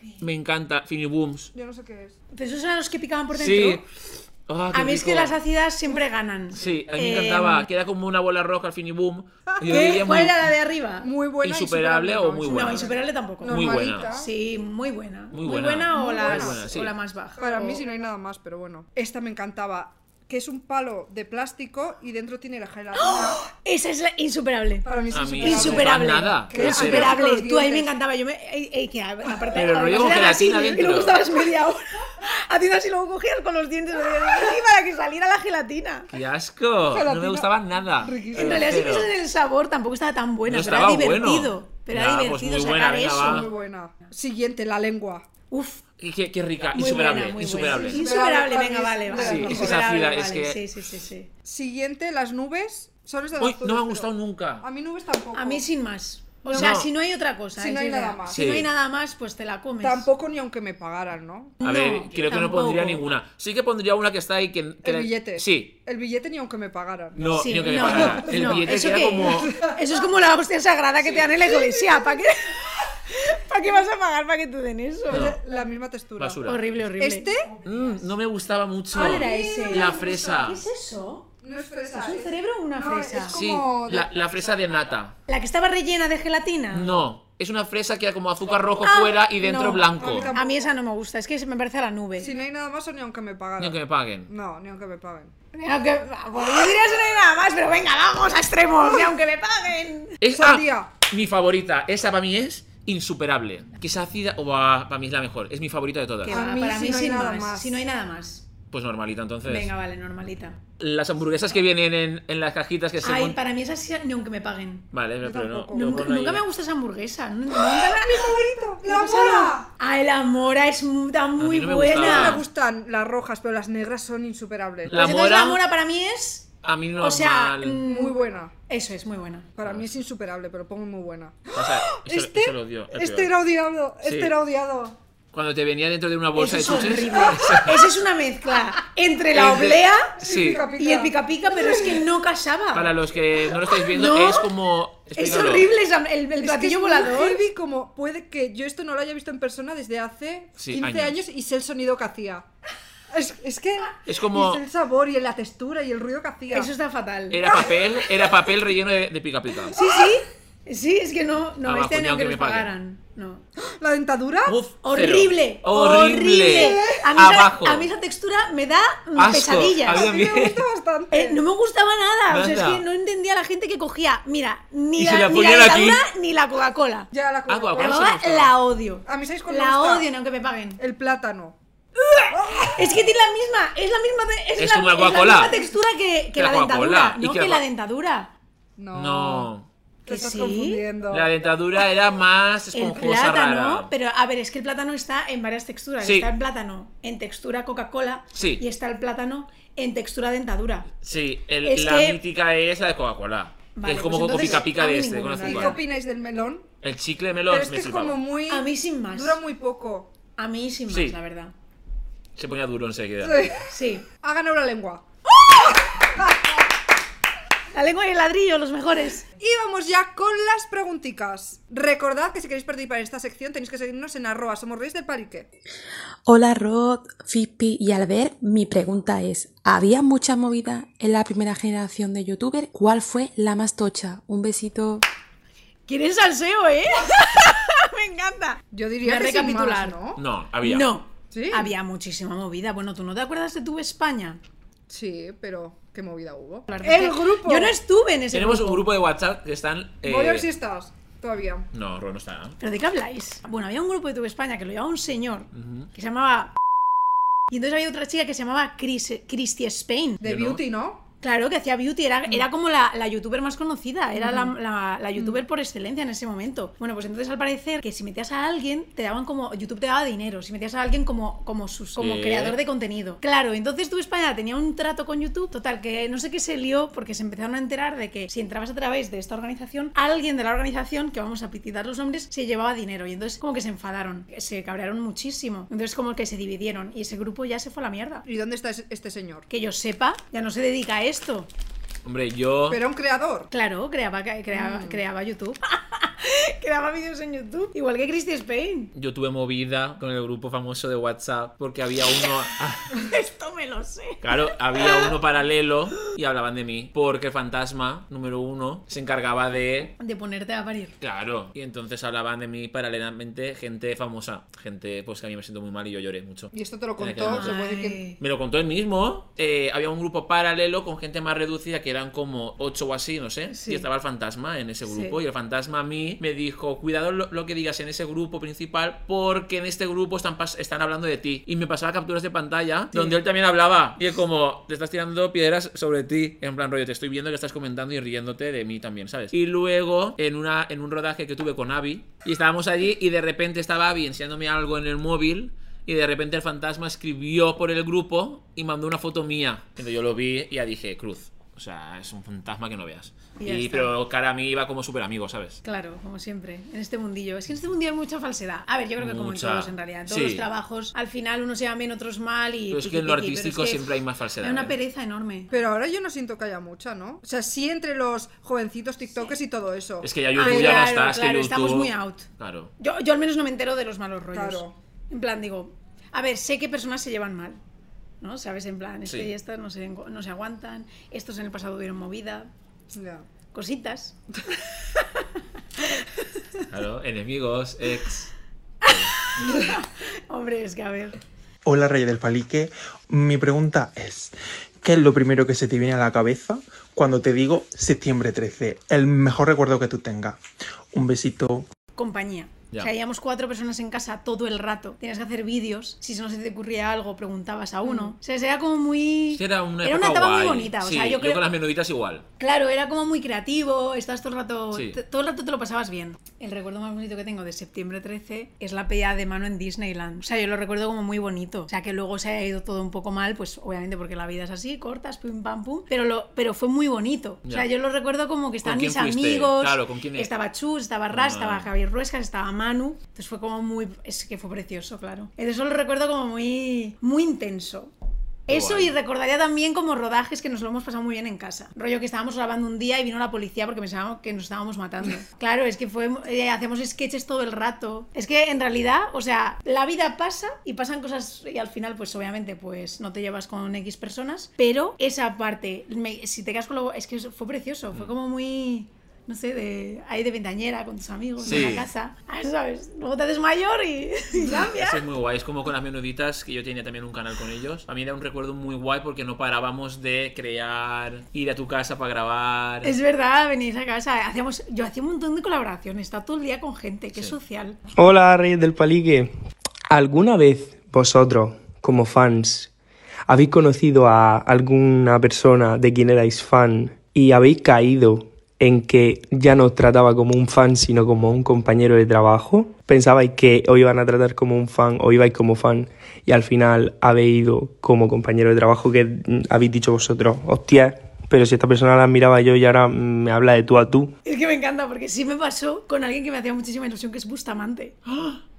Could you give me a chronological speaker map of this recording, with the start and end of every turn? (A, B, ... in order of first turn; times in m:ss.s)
0:00.2-0:01.5 A
0:01.5-0:02.1 B
0:02.3-0:03.8 C
0:03.3-0:05.4 A
0:04.7-0:07.7 C
0:06.5-0:10.5 A
0:09.5-0:10.0 B
0:09.7-0:11.1 C
0:11.0-0:14.3 B
0:11.4-0:14.1 A
0:12.4-0:17.8 C
0:15.3-0:16.9 A
0:15.9-0:16.6 B
0:17.4-0:23.4 B
0:23.0-0:24.9 C
0:24.8-0:27.9 B
0:25.1-0:27.2 A
0:25.4-0:36.1 C
0:29.5-0:31.2 A
0:36.1-0:39.1 A
0:36.9-0:38.9 B
0:38.3-0:43.4 C
0:40.4-0:43.5 A
0:43.1-0:45.2 B
0:45.5-0:45.8 C
0:46.0-0:48.0 A
0:46.7-0:51.3 C
0:47.5-0:50.0 B
0:49.1-0:50.6 A
0:51.4-0:55.6 B
0:53.4-0:54.6 A
0:55.3-1:00.1 C
0:56.4-0:56.8 B
0:56.5-0:56.9 A
0:57.5-0:58.5 B
0:58.3-0:58.7 A
0:59.8-1:01.6 B
1:01.6-1:03.0 C
1:01.6-1:05.7 A
1:04.8-1:09.8 B
1:07.2-1:09.6 A
1:07.3-1:15.3 C
1:11.1-1:12.1 B
1:15.1-1:16.4 B
1:15.1-1:15.4 A
1:16.2-1:16.7 A
1:16.4-1:17.3 C
1:17.0-1:17.6 B
1:17.6-1:20.6 A
1:18.9-1:20.2 B
1:18.9-1:21.3 C
1:21.4-1:24.1 B
1:22.0-1:23.4 C
1:23.3-1:25.1 A
1:25.3-1:27.0 C
1:26.7-1:30.3 A
1:28.8-1:32.3 C
1:29.9-1:30.6 B
1:32.2-1:35.3 B
1:33.6-1:34.3 A
1:35.5-1:40.2 C
1:40.2-1:46.4 A
1:40.3-1:40.9 B
1:46.2-1:48.4 C
1:46.3-1:47.8 B
1:48.7-1:49.7 A
1:49.4-1:50.6 C
1:50.8-1:53.4 A
1:53.0-1:54.9 C
1:54.9-1:56.4 A
1:55.2-1:56.1 B
1:55.7-2:02.4 C
1:57.6-1:59.7 B
2:01.4-2:02.4 A
2:01.9-2:05.0 B
2:04.9-2:05.6 A
2:04.9-2:06.5 C
2:06.6-2:07.8 A
2:07.0-2:09.5 C
2:07.8-2:08.5 B
2:09.6-2:15.0 B
2:11.5-2:13.3 A
2:14.0-2:14.3 A
2:15.3-2:17.9 A
2:16.4-2:23.0 C
2:19.3-2:20.6 A
2:20.2-2:22.0 B
2:22.7-2:25.7 A
2:23.7-2:24.5 C
2:25.1-2:27.4 C
2:26.4-2:32.4 B
2:30.6-2:31.2 A
2:33.1-2:36.7 B
2:34.0-2:34.6 A
2:36.5-2:37.4 C
2:37.3-2:39.8 A
2:37.4-2:37.9 B
2:39.7-2:43.4 C
2:41.6-2:42.7 A
2:43.8-2:44.6 B
2:44.4-2:47.9 A
2:44.8-2:50.1 C
2:46.5-2:46.9 B
2:49.2-2:50.7 A
2:49.9-2:51.4 B
2:51.1-2:57.1 C
2:52.3-2:52.8 A
2:55.0-2:56.0 A
2:57.1-2:58.0 B
2:57.5-2:58.5 A
2:57.8-3:00.8 C
2:59.0-3:00.1 B
3:00.8-3:01.6 B
3:02.0-3:08.3 C
3:02.3-3:02.8 B
3:04.6-3:05.6 A
3:06.4-3:07.6 A
3:08.8-3:09.5 B
3:08.9-3:09.7 A
3:10.0-3:10.8 C
3:10.1-3:11.3 B
3:11.1-3:13.9 A
3:12.7-3:20.9 C
3:16.0-3:16.3 A
3:18.3-3:18.6 A
3:21.0-3:25.8 A
3:21.6-3:22.2 C
3:23.8-3:25.8 C
3:24.2-3:24.6 B
3:25.4-3:26.6 B
3:26.8-3:28.2 A
3:27.5-3:30.1 B
3:28.5-3:29.4 C
3:30.4-3:31.5 C
3:30.9-3:31.2 A
3:32.4-3:33.5 A
3:33.2-3:33.7 B
3:33.7-3:34.0 C
3:34.2-3:35.0 B
3:35.3-3:35.8 C
3:36.2-3:36.5 B
3:37.7-3:39.2 C
3:39.4-3:45.5 B
3:46.2-3:55.0 D
3:55.9-4:00.0 C
3:58.7-4:00.2 B
4:00.2-4:00.9 A
4:00.6-4:04.4 C
4:01.3-4:01.7 B
4:04.9-4:07.8 B
4:06.7-4:08.9 C
4:08.3-4:10.5 A
4:10.0-4:11.7 B
4:11.7-4:12.6 A
4:12.6-4:16.5 C
4:15.5-4:15.9 A
4:17.5-4:20.2 C
4:20.2-4:20.6 A
4:20.2-4:21.0 B
4:21.2-4:48.2 C
4:24.2-4:24.5 B
4:32.0-4:32.6 A
4:48.2-4:49.5 B
4:49.5-4:51.5 C
4:52.0-4:52.8 A
4:52.7-4:53.5 B
4:53.5-4:58.9 C
4:54.5-4:55.0 B
4:58.9-5:03.0 A
5:02.9-5:05.1 C
5:04.2-5:09.9 A
5:10.0-5:11.0 C
5:11.0-5:17.6 A
5:16.5-5:18.0 B
5:17.2-5:18.2 C
5:18.2-5:55.6 A
5:23.5-5:23.8 C
5:24.8-5:25.2 C
5:53.4-5:53.9 C
5:55.6-6:05.5 C
5:59.0-6:00.4 A
6:02.7-6:04.7 A
6:05.5-6:10.8 B
6:10.0-6:12.7 A
6:10.4-6:12.3 C
6:12.8-6:17.6 C
6:14.3-6:14.7 B
6:18.2-6:22.5 C
6:19.0-6:19.3 A
6:22.9-6:23.2 B
6:23.5-6:24.2 C
6:24.9-6:26.6 C
6:26.7-6:28.3 A
6:28.8-6:29.3 A
6:28.8-6:31.2 C
6:31.6-6:40.4 E
6:40.9-6:41.7 E
6:42.0-6:51.4 C
6:47.8-6:48.1 B
6:49.3-6:52.2 A
6:52.4-7:17.9 C
6:54.7-6:55.0 A
7:08.6-7:10.3 A
7:11.1-7:11.7 A
7:18.5-7:45.0 C
7:18.5-7:18.9 A
7:41.4-7:41.9 A
7:44.5-7:52.9 A
7:52.8-7:57.8 C
7:58.0-7:59.3 F
7:59.9-8:02.7 F
8:03.3-8:24.1 F
8:24.2-8:28.0 C
8:28.0-8:28.4 A